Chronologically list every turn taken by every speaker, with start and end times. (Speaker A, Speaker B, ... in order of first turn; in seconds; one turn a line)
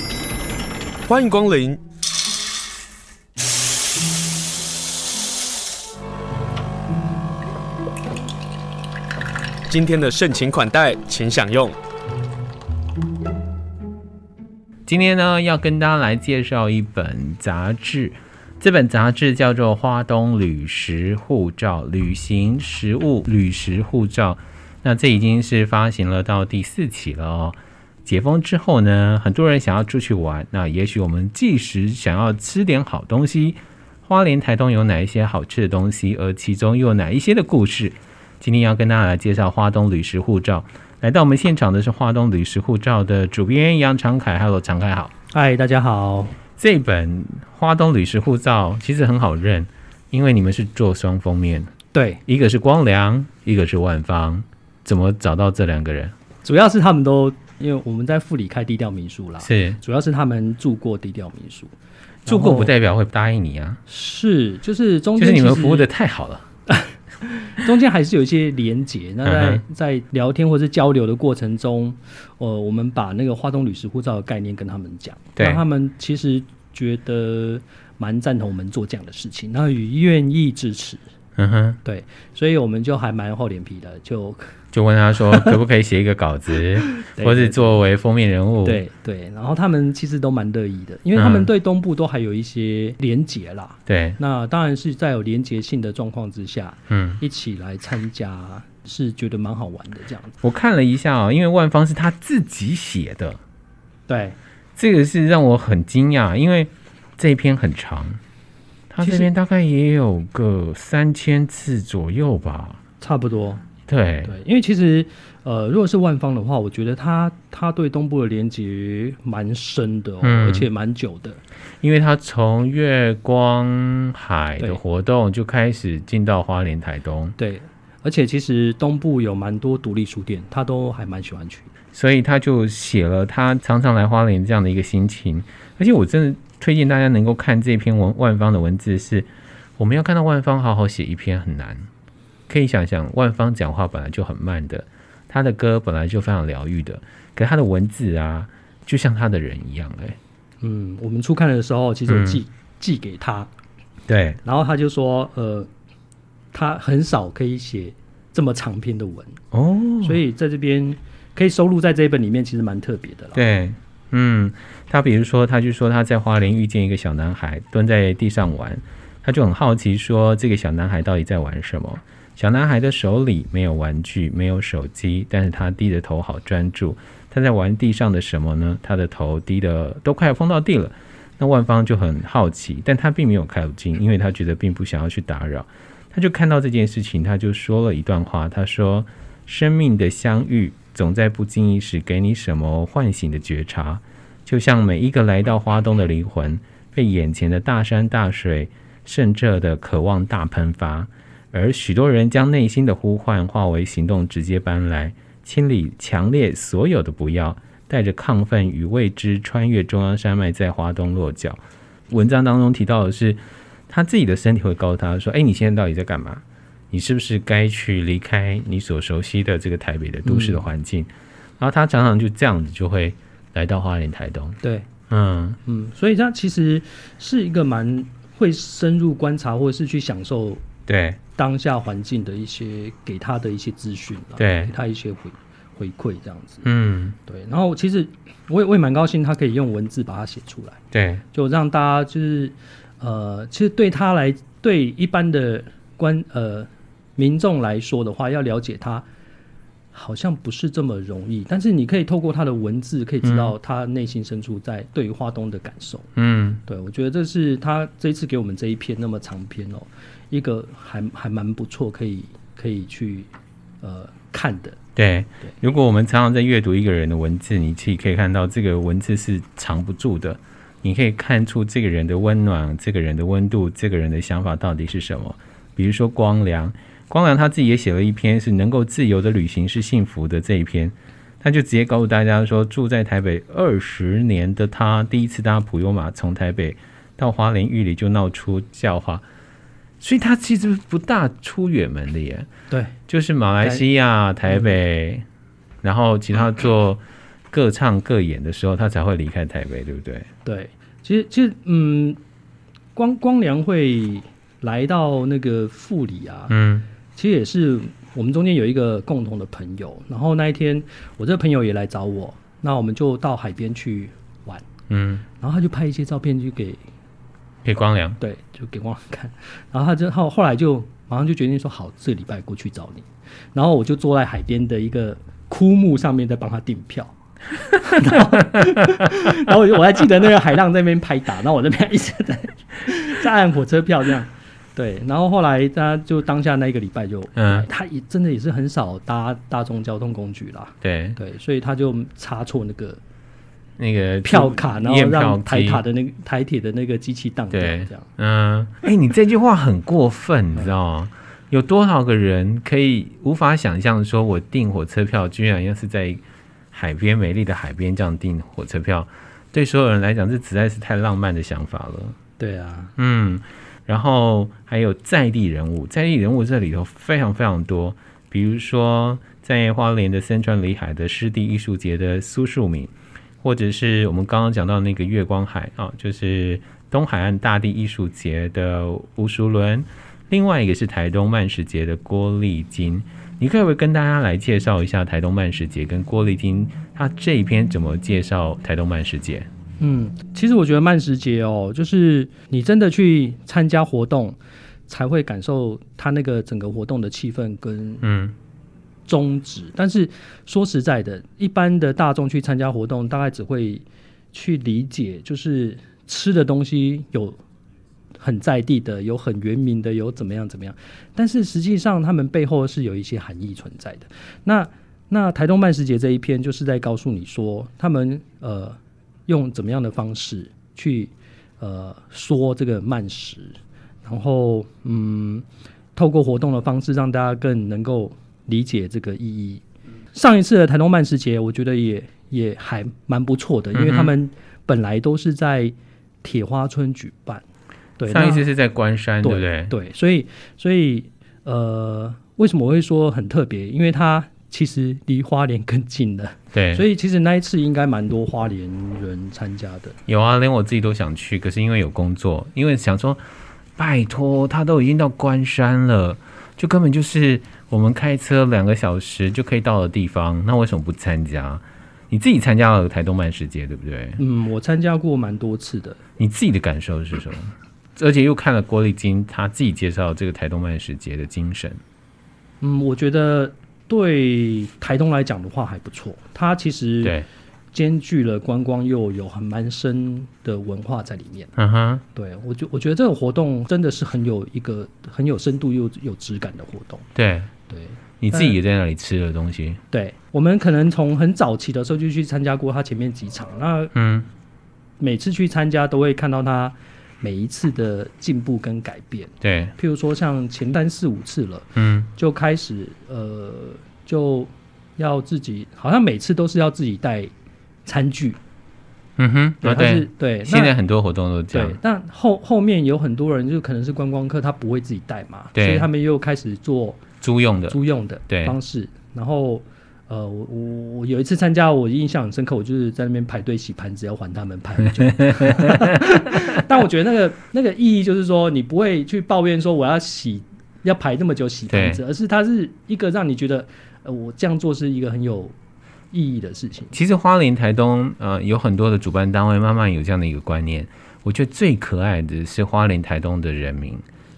Speaker A: 1.1-1.8
Speaker A: 9.7-11.7
Speaker B: 14.9-45.1
Speaker C: 45.3-46.3
Speaker B: 46.6-51.7
Speaker C: 51.9-52.2
Speaker B: 52.2-56.1
Speaker C: 56.4-61.7
Speaker B: 59.4-59.8
Speaker C: 62.2-62.7
Speaker B: 62.2-63.8
Speaker C: 63.9-65.9
Speaker B: 65.2-66.5
Speaker C: 66.7-81.0
Speaker B: 69.2-69.6
Speaker B: 75.4-75.6
Speaker B: 81.4-81.8
Speaker C: 81.8-84.5
Speaker B: 84.7-88.8
Speaker C: 85.3-85.5
Speaker C: 86.8-87.8
Speaker C: 88.6-100.4
Speaker B: 91.1-91.5
Speaker B: 93.9-94.2
Speaker B: 96.9-97.2
Speaker B: 100.4-103.4
Speaker C: 104.1-104.4
Speaker B: 104.8-108.2
Speaker B: 108.9-112.8
Speaker C: 109.0-109.3
Speaker C: 113.0-113.6
Speaker B: 113.9-114.3
Speaker C: 114.2-121.4
Speaker B: 120.2-120.7
Speaker B: 121.8-127.3
Speaker C: 127.4-131.7
Speaker B: 131.9-141.9
Speaker B: 142.5-150.2
Speaker C: 150.6-153.5
Speaker B: 152.1-152.4
Speaker B: 154.1-154.4
Speaker C: 154.4-155.7
Speaker C: 156.5-159.4
Speaker B: 159.5-160.2
Speaker C: 160.0-163.4
Speaker B: 163.3-225.6
Speaker C: 220.2-220.6
Speaker C: 224.6-224.9
Speaker C: 225.6-230.6
Speaker B: 230.9-231.2
Speaker C: 231.3-236.6
Speaker B: 234.4-234.7
Speaker B: 236.6-237.2
Speaker C: 237.2-240.8
Speaker B: 240.9-241.2
Speaker C: 241.3-249.0
Speaker C: 249.9-256.1
Speaker B: 253.2-253.5
Speaker B: 256.1-256.6
Speaker C: 256.6-263.3
Speaker C: 263.8-264.8
Speaker B: 264.9-289.2
Speaker B: 290.0-292.5
Speaker C: 292.7-292.9
Speaker B: 293.1-295.2
Speaker B: 295.8-300.3
Speaker C: 300.4-302.2
Speaker C: 302.9-306.5
Speaker B: 306.5-306.9
Speaker C: 307.1-314.6
Speaker B: 314.9-315.2
Speaker C: 315.4-316.8
Speaker B: 317.6-318.2
Speaker C: 318.2-327.1
Speaker C: 327.8-343.0
Speaker B: 327.9-329.3
Speaker B: 337.4-337.6
Speaker B: 340.8-341.2
Speaker B: 343.8-345.8
Speaker C: 344.2-348.1
Speaker B: 347.5-362.1
Speaker C: 362.4-362.9
Speaker B: 363.0-389.5
Speaker C: 389.8-398.0
Speaker B: 398.0-398.3
Speaker C: 399.1-407.4
Speaker C: 408.2-425.4
Speaker C: 425.9-429.6
Speaker C: 430.1-437.4
Speaker B: 433.7-434.1
Speaker C: 438.0-438.4
Speaker B: 438.1-439.7
Speaker C: 439.2-450.0
Speaker B: 446.5-446.8
Speaker B: 450.1-453.2
Speaker B: 453.8-464.2
Speaker C: 464.2-466.0
Speaker B: 466.2-471.8
Speaker C: 472.6-477.2
Speaker C: 477.7-481.5
Speaker B: 481.6-482.0
Speaker C: 482.1-487.1
Speaker B: 487.1-487.5
Speaker C: 487.7-488.6
Speaker B: 488.2-489.8
Speaker C: 489.9-493.9
Speaker B: 493.9-494.3
Speaker C: 495.0-507.3
Speaker B: 499.4-499.7
Speaker B: 501.8-502.1
Speaker C: 507.9-508.4
Speaker B: 509.2-511.8
Speaker C: 509.6-510.7
Speaker C: 511.5-517.0
Speaker B: 515.5-515.9
Speaker B: 517.2-517.8
Speaker C: 517.7-535.5
Speaker B: 518.3-518.5
Speaker B: 525.1-526.2
Speaker B: 531.7-532.0
Speaker C: 536.1-537.0
Speaker B: 536.9-544.0